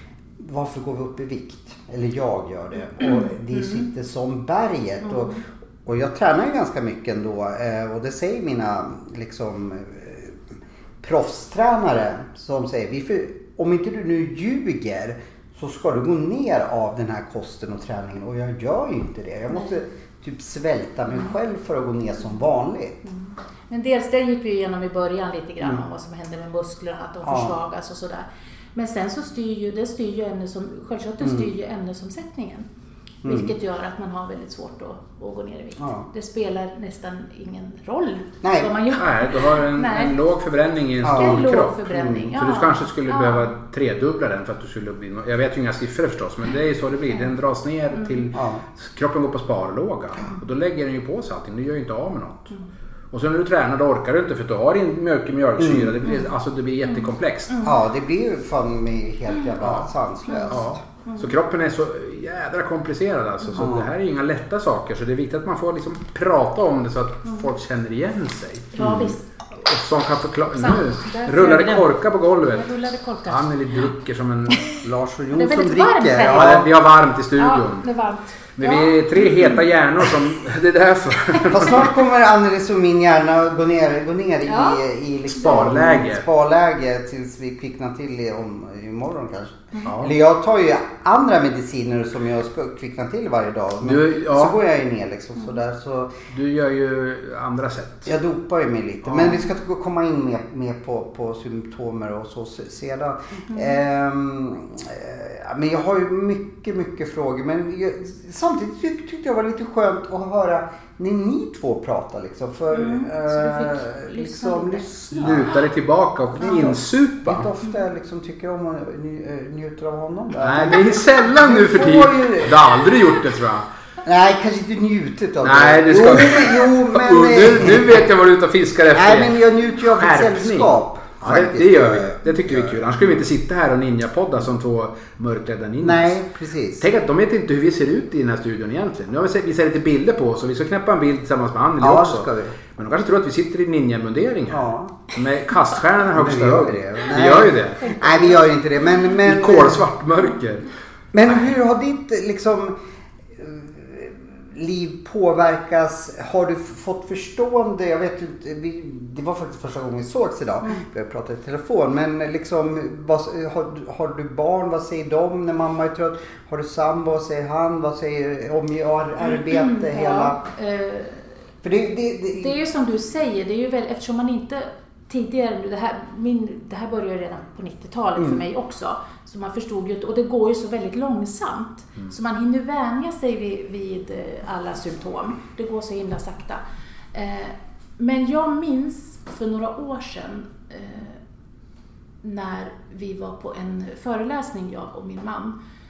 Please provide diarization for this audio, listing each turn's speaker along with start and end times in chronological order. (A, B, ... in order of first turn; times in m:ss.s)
0:00.4-0:10.4 A
0:03.0-0:03.8 B
0:05.0-0:05.4 B
0:11.0-0:23.0 A
0:19.5-0:19.8 B
0:23.0-0:32.7 B
0:27.2-0:27.6 A
0:31.2-0:31.5 A
0:33.2-0:33.5 A
0:33.2-0:40.2 B
0:35.8-0:36.0 A
0:38.4-0:38.7 A
0:39.0-0:52.5 C
0:41.0-0:42.3 A
0:41.1-0:43.5 B
0:47.9-0:48.2 B
0:48.3-0:48.6 A
0:53.1-0:57.6 C
0:55.6-0:56.2 A
0:56.9-0:57.8 B
0:57.6-1:00.8 A
0:59.6-0:59.9 C
1:00.3-1:01.3 B
1:00.5-1:14.8 C
1:03.6-1:03.9 A
1:08.7-1:09.2 B
1:08.8-1:09.1 A
1:10.6-1:13.8 B
1:14.5-1:14.8 B
1:14.8-1:16.7 A
1:15.3-1:16.7 B
1:16.2-1:17.9 C
1:17.4-1:19.6 B
1:18.6-1:21.9 C
1:21.5-1:36.1 A
1:24.5-1:24.8 B
1:25.4-1:26.2 C
1:29.8-1:30.1 C
1:33.8-1:34.6 C
1:36.3-1:38.1 C
1:38.1-1:55.5 A
1:39.1-1:39.4 C
1:52.7-1:54.9 B
1:55.2-1:57.5 C
1:56.4-2:02.6 A
2:00.4-2:03.7 C
2:04.0-2:08.0 A
2:05.4-2:09.4 C
2:08.9-2:12.7 A
2:09.9-2:16.2 C
2:15.8-2:16.9 A
2:16.8-2:27.9 C
2:21.8-2:22.6 A
2:24.5-2:25.0 A
2:26.1-2:29.9 A
2:27.8-2:28.4 B
2:29.2-2:30.7 C
2:31.1-2:32.8 A
2:33.4-2:50.4 A
2:49.2-2:51.3 B
2:51.6-2:52.5 A
2:52.3-3:06.6 B
3:07.1-3:11.2 B
3:12.2-3:15.6 B